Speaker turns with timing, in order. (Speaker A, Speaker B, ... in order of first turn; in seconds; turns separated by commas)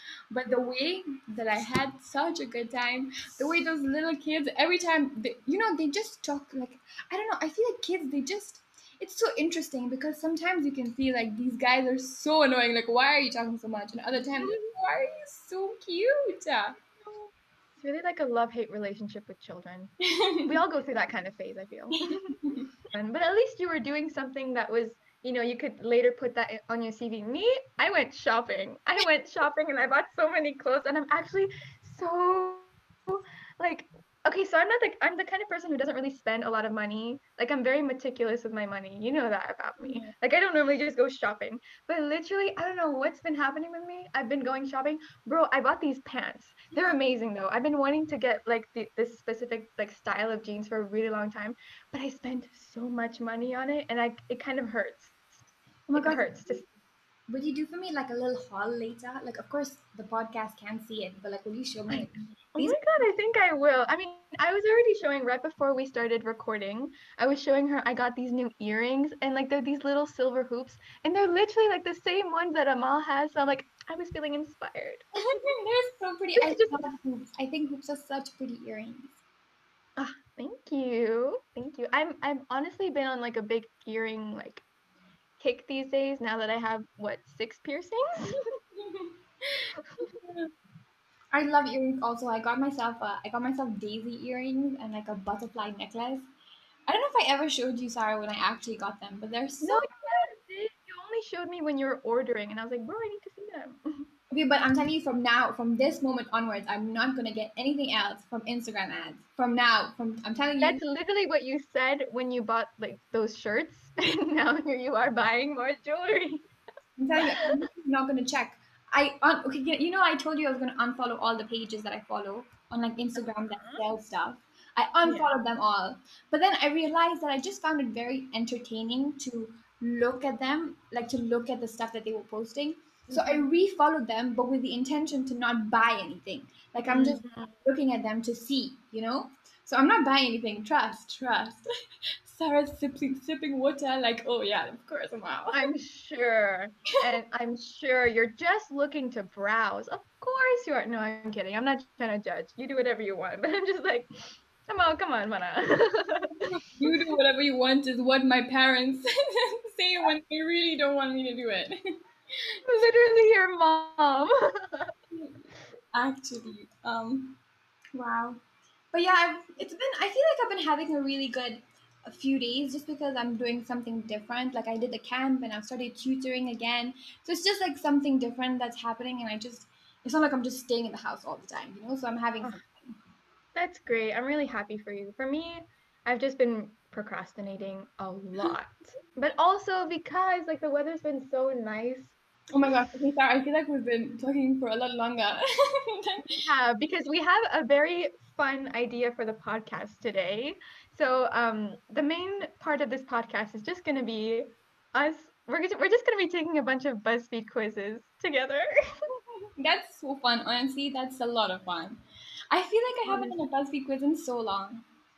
Speaker A: 0.3-16.8, Speaker B: 14.4-14.7, Speaker B: 17.8-19.9, Speaker A: 20.1-20.5, Speaker B: 20.4-55.2, Speaker A: 22.1-22.6, Speaker A: 39.8-40.1, Speaker A: 55.9-56.6, Speaker B: 56.0-56.6, Speaker A: 57.3-63.1, Speaker B: 61.9-75.0, Speaker A: 75.2-79.2, Speaker B: 76.4-76.8, Speaker B: 80.0-84.6, Speaker B: 85.4-88.4, Speaker A: 88.8-90.5, Speaker A: 91.3-96.3, Speaker A: 96.9-99.9, Speaker B: 99.6-104.1, Speaker A: 104.3-110.8, Speaker B: 110.6-116.5, Speaker A: 117.0-141.7, Speaker B: 117.3-117.6, Speaker B: 123.2-123.8, Speaker B: 133.1-133.5, Speaker B: 136.9-137.5, Speaker A: 142.2-145.7, Speaker B: 145.5-157.0, Speaker A: 156.7-161.8, Speaker A: 162.3-162.6, Speaker B: 162.7-164.9, Speaker A: 165.1-165.4, Speaker A: 165.9-167.4, Speaker A: 167.9-168.4, Speaker A: 168.9-183.0, Speaker B: 183.6-192.1, Speaker A: 192.5-196.4, Speaker B: 196.4-208.7, Speaker A: 209.6-214.8, Speaker B: 213.1-213.4